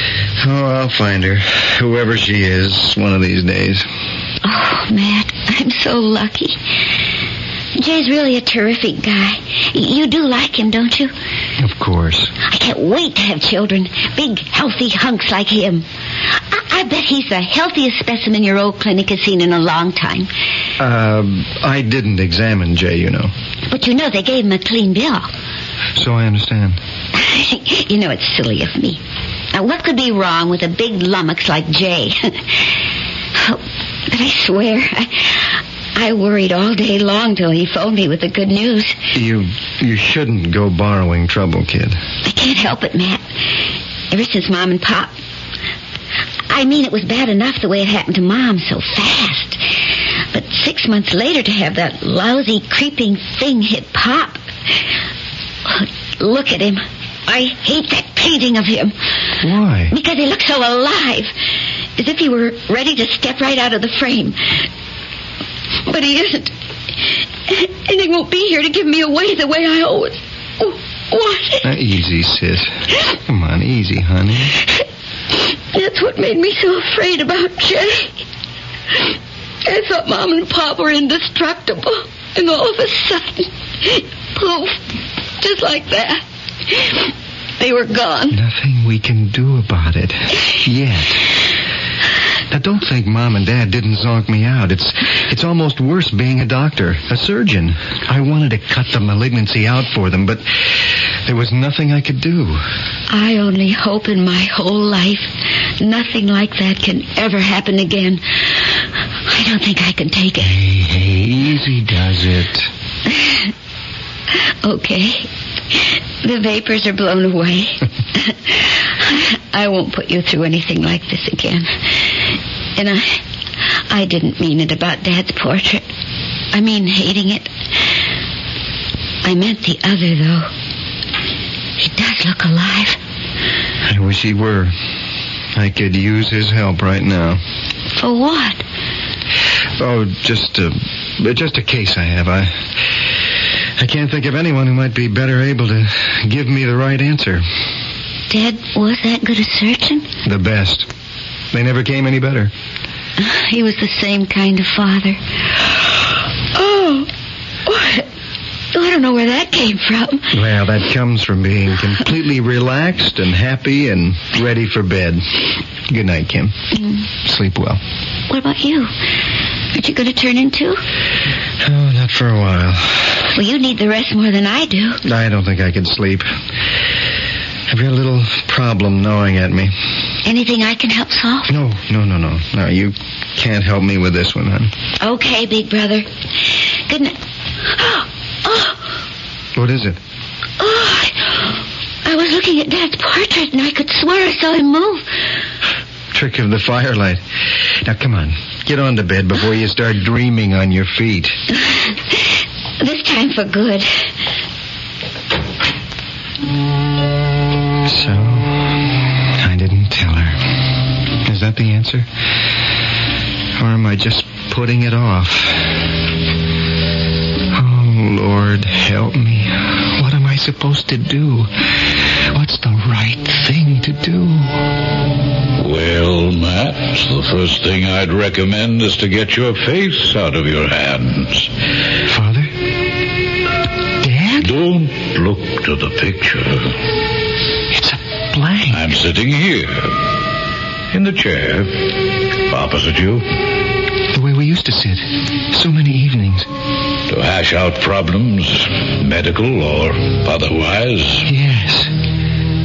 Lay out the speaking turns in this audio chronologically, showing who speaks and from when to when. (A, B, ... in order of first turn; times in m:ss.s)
0:00.4-0:03.9 A
0:04.4-0:06.6 B
0:07.8-0:11.1 B
0:11.6-0:12.3 A
0:12.5-0:20.3 B
0:20.8-0:23.3 A
0:23.7-0:25.3 B
0:26.0-0:26.8 A
0:27.1-0:29.0 B
0:29.5-0:32.7 B
0:33.4-0:39.0 B
0:39.1-0:42.0 A
0:42.2-0:43.3 B
0:44.1-0:45.1 B
0:46.5-0:49.6 B
0:50.3-0:54.4 B
0:55.6-0:59.0 B
0:59.4-0:59.9 A
0:59.9-1:01.3 B
1:02.0-1:04.6 B
1:05.9-1:06.5 B
1:07.5-1:11.6 B
1:11.6-1:14.6 A
1:15.7-1:18.1 B
1:19.6-1:24.8 B
1:25.4-1:28.4 B
1:28.3-1:31.2 A
1:32.5-1:42.6 A
1:43.1-1:48.7 B
1:49.3-1:50.6 B
1:50.4-1:52.7 A
1:53.1-1:53.5 B
1:54.6-2:02.1 B
2:02.8-2:03.2 B
2:03.9-2:05.9 B
2:06.5-2:07.5 B
2:09.2-2:10.5 B
2:11.8-2:13.0 B
2:13.8-2:14.8 A
2:15.6-2:17.4 A
2:18.0-2:18.6 B
2:19.8-2:22.7 A
2:23.8-2:27.4 A
2:28.3-2:30.1 B
2:30.2-2:30.9 A
2:31.5-2:32.5 A
2:33.2-2:37.1 B
2:37.7-2:38.1 B
2:38.7-2:40.3 B
2:40.3-2:46.6 A
2:46.7-2:47.0 B
2:47.2-2:47.8 A
2:48.3-2:48.9 B
2:49.7-2:50.8 B
2:51.6-2:53.2 A
2:53.4-2:55.0 B
2:55.0-2:56.3 A
2:57.7-2:59.7 A
3:00.2-3:01.5 B
3:01.5-3:04.7 A
3:05.0-3:07.2 B
3:07.7-3:08.9 B
3:09.6-3:10.0 A
3:10.6-3:15.1 B
3:16.1-3:17.2 A
3:17.8-3:21.4 A
3:22.8-3:24.1 B
3:27.8-3:28.8 A
3:29.4-3:30.4 A
3:31.2-3:32.1 A
3:33.6-3:35.8 A
3:37.5-3:41.5 A
3:42.3-3:44.6 A
3:45.6-3:51.5 C
3:52.1-3:52.5 A
3:54.0-3:54.5 A
3:54.4-3:56.8 C
3:57.7-3:58.9 A
3:58.7-4:00.0 C
4:00.9-4:01.9 C
4:02.5-4:03.3 C
4:04.1-4:06.5 A
4:07.1-4:11.3 C
4:11.2-4:11.9 A